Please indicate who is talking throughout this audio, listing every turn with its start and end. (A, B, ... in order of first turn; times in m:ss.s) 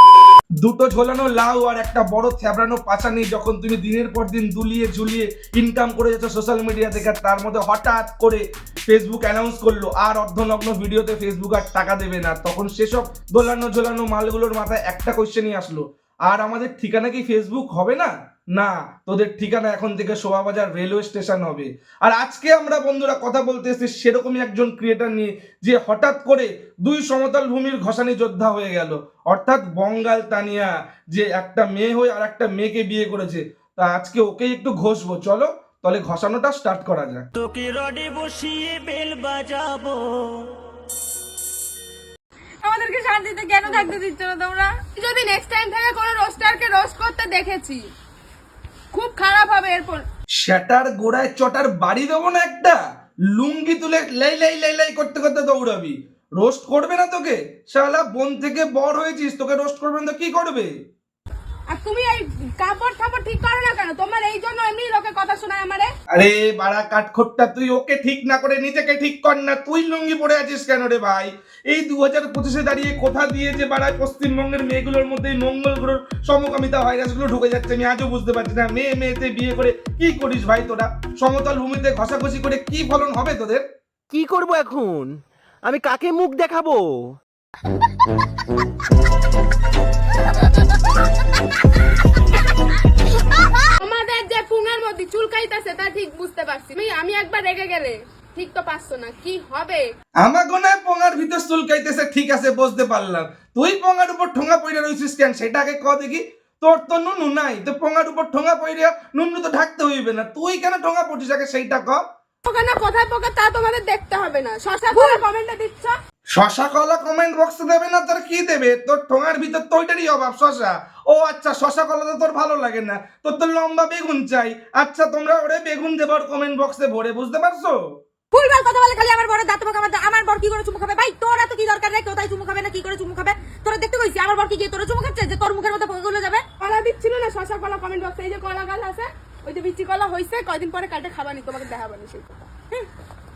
0:00.6-0:37.2 A
0:37.3-0:40.2 B
0:42.6-0:47.8 C
0:48.9-0:50.0 C
0:50.4-1:00.7 A
1:01.7-1:05.9 C
1:06.1-1:23.6 A
1:24.1-1:27.0 D
1:33.8-1:39.8 C
1:40.2-1:52.0 A
1:52.4-1:56.0 C
1:56.3-2:07.8 A
2:08.3-2:16.4 E
2:16.6-2:22.8 C